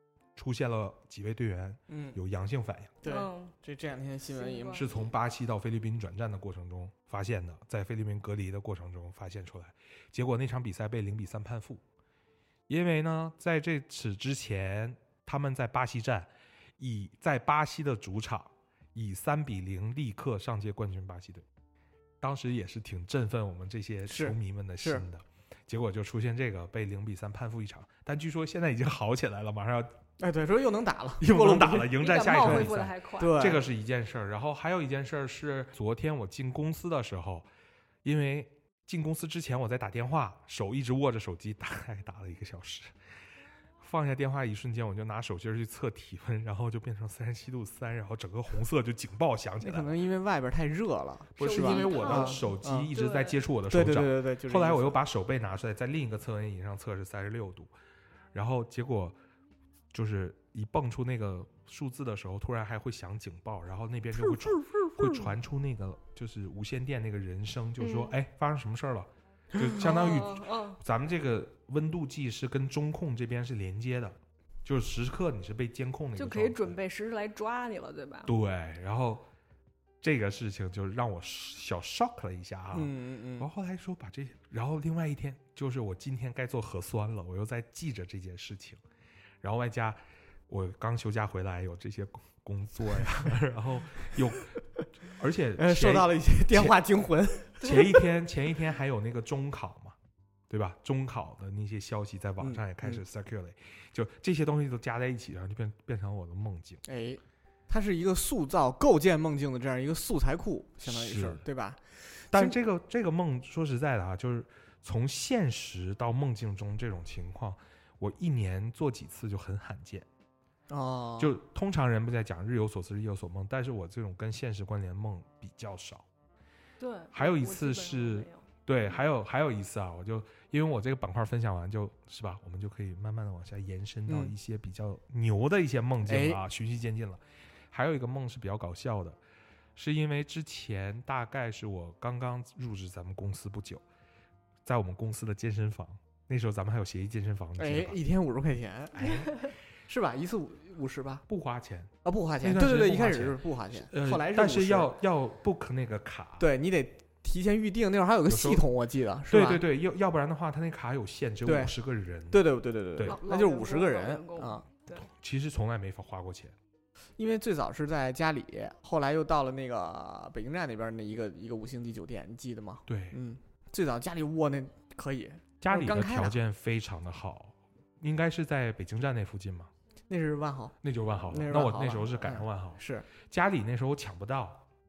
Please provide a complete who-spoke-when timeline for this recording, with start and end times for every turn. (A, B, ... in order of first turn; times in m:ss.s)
0:00.3-0:03.0 A
0:01.9-0:02.2 B
0:03.0-0:04.9 B
0:03.0-0:03.5 C
0:04.3-0:05.0 C
0:04.7-0:11.8 A
0:12.7-0:21.4 A
0:22.2-0:29.9 A
0:24.1-0:25.0 B
0:30.2-0:33.6 B
0:31.2-0:37.5 A
0:32.0-0:33.5 C
0:38.0-0:42.9 A
0:43.8-0:49.9 A
0:49.6-0:52.9 B
0:51.4-0:57.7 A
0:51.4-0:53.4 C
0:53.7-0:54.9 B
0:58.3-0:59.2 A
0:59.9-1:16.8 A
1:04.2-1:05.3 B
1:07.8-1:08.1 C
1:09.8-1:10.8 C
1:16.2-1:18.3 C
1:18.3-1:19.3 A
1:20.0-1:28.8 A
1:22.7-1:23.5 B
1:29.4-1:36.8 A
1:35.6-1:37.8 B
1:37.6-1:40.0 A
1:40.5-1:46.8 A
1:42.4-1:43.0 B
1:46.8-1:52.6 B
1:50.8-1:51.4 A
1:52.3-2:00.1 A
2:00.7-2:01.3 B
2:01.2-2:06.0 A
2:06.8-2:08.4 C
2:07.1-2:19.2 A
2:14.1-2:14.3 B
2:16.0-2:16.4 B
2:19.8-2:23.8 A
2:24.6-2:28.0 A
2:27.6-2:29.3 B
2:28.9-2:29.3 A
2:29.9-2:31.2 B
2:31.3-2:36.5 A
2:32.0-2:34.9 B
2:36.4-2:39.6 B
2:38.3-2:38.6 A
2:39.3-2:43.2 A
2:41.4-2:41.7 B
2:42.3-2:44.6 B
2:43.0-2:45.0 C
2:45.0-2:46.5 A
2:47.2-2:56.4 B
2:52.9-2:53.2 A
2:55.6-2:59.7 A
3:00.1-3:00.8 B
3:00.8-3:04.6 A
3:01.3-3:03.1 B